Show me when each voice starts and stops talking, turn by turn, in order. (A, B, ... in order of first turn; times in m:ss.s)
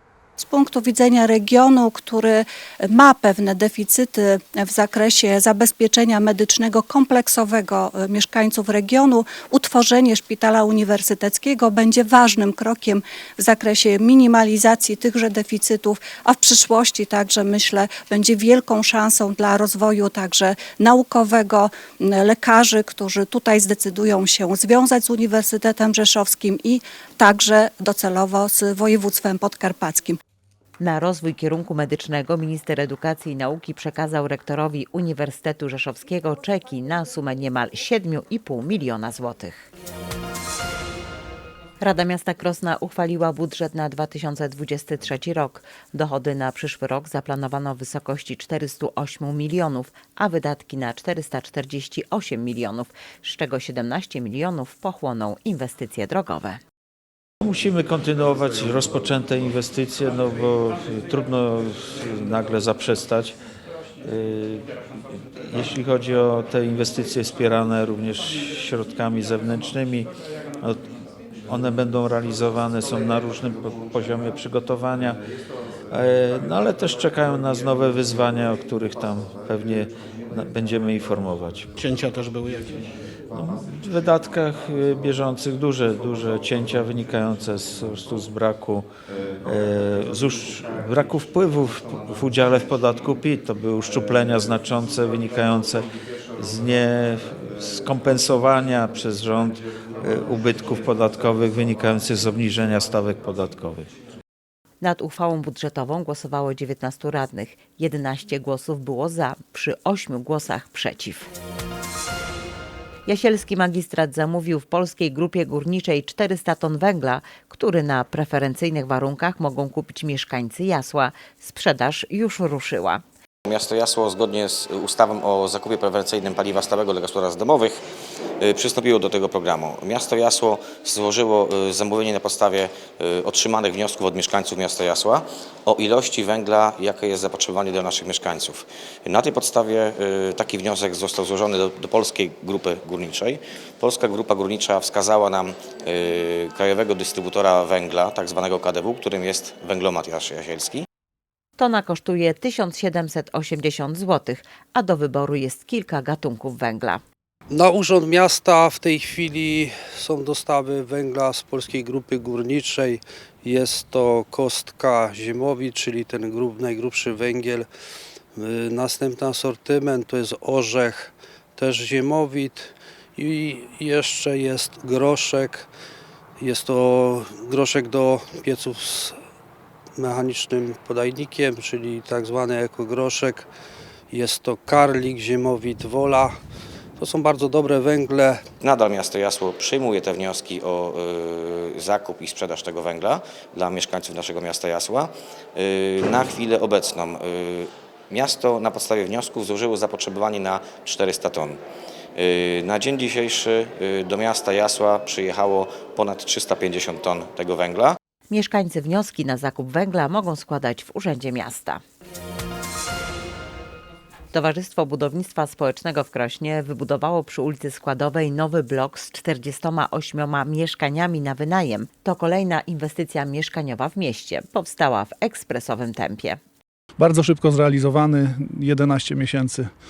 0:00.4-0:30.2 A
0:30.8-0:39.6 B
0:41.8-0:56.6 B
0:57.4-1:03.4 C
1:04.0-1:04.7 C
1:05.5-1:10.9 C
1:11.5-1:15.2 C
1:15.9-1:21.7 C
1:23.3-1:28.9 C
1:29.4-1:43.9 C
1:44.8-1:51.3 B
1:53.1-2:03.0 B
2:03.5-2:07.8 D
2:08.4-2:30.8 D
2:31.6-2:37.0 B
2:37.5-2:47.7 E
2:48.4-2:55.7 E
2:56.4-2:59.2 E
3:00.0-3:03.5 E
3:04.1-3:06.4 E
3:07.0-3:08.4 E
3:08.6-3:21.6 D
3:22.2-3:28.0 D
3:28.3-3:31.8 B
3:34.3-3:46.4 B
3:47.0-3:49.7 F